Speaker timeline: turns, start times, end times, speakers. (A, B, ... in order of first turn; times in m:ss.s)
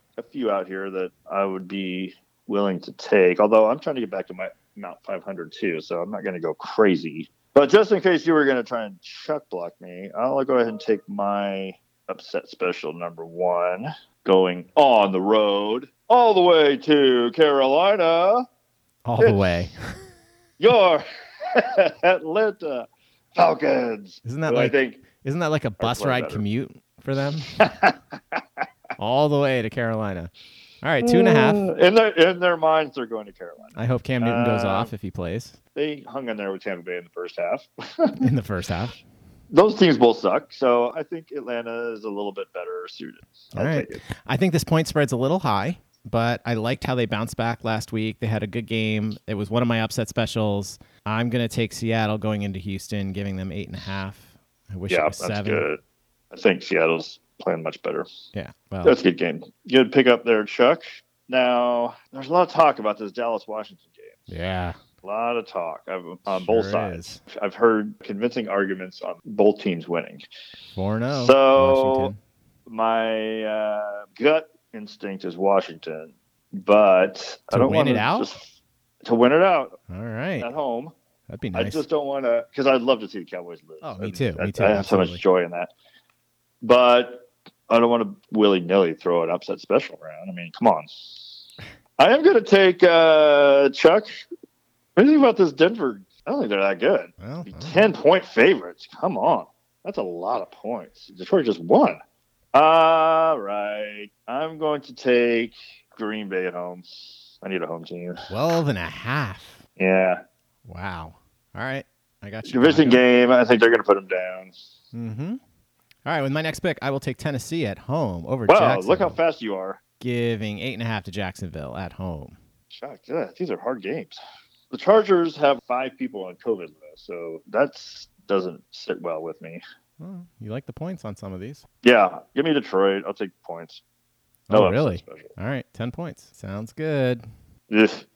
0:00.2-0:18.4 A
0:19.0-0:20.0 B
0:19.2-0:19.6 A
0:20.6-0:25.0 A
0:24.2-0:27.6 B
0:25.8-0:26.4 A
0:27.6-0:28.4 A
0:29.0-0:30.3 B
0:30.8-0:31.7 B
0:31.0-0:34.9 A
0:33.7-0:35.6 B
0:35.7-0:38.3 A
0:38.2-0:39.0 B
0:39.5-0:44.0 A
0:43.5-0:55.6 B
0:54.9-0:55.8 A
0:56.3-0:58.0 A
0:58.3-0:59.0 B
0:58.8-1:04.1 A
1:04.3-1:04.8 B
1:05.0-1:10.2 A
1:06.3-1:07.2 B
1:10.7-1:12.2 B
1:11.1-1:12.1 A
1:12.7-1:19.8 A
1:17.5-1:18.3 B
1:19.9-1:20.5 B
1:20.4-1:20.9 A
1:21.3-1:21.8 B
1:21.5-1:25.7 A
1:23.8-1:25.2 B
1:26.6-1:31.4 A
1:32.0-1:34.2 A
1:35.0-1:42.0 A
1:37.2-1:37.9 B
1:42.5-1:46.8 A
1:47.4-1:48.3 A
1:48.3-1:49.6 B
1:49.8-1:50.2 A
1:50.6-1:53.0 B
1:52.4-1:54.5 A
1:54.9-1:55.4 B
1:56.0-1:59.2 B
1:58.5-1:59.8 A
2:00.0-2:02.4 B
2:02.7-2:04.2 A
2:04.7-2:09.6 A
2:10.0-2:11.6 B
2:11.8-2:13.8 A
2:14.5-2:17.2 B
2:14.5-2:15.3 A
2:17.7-2:18.0 A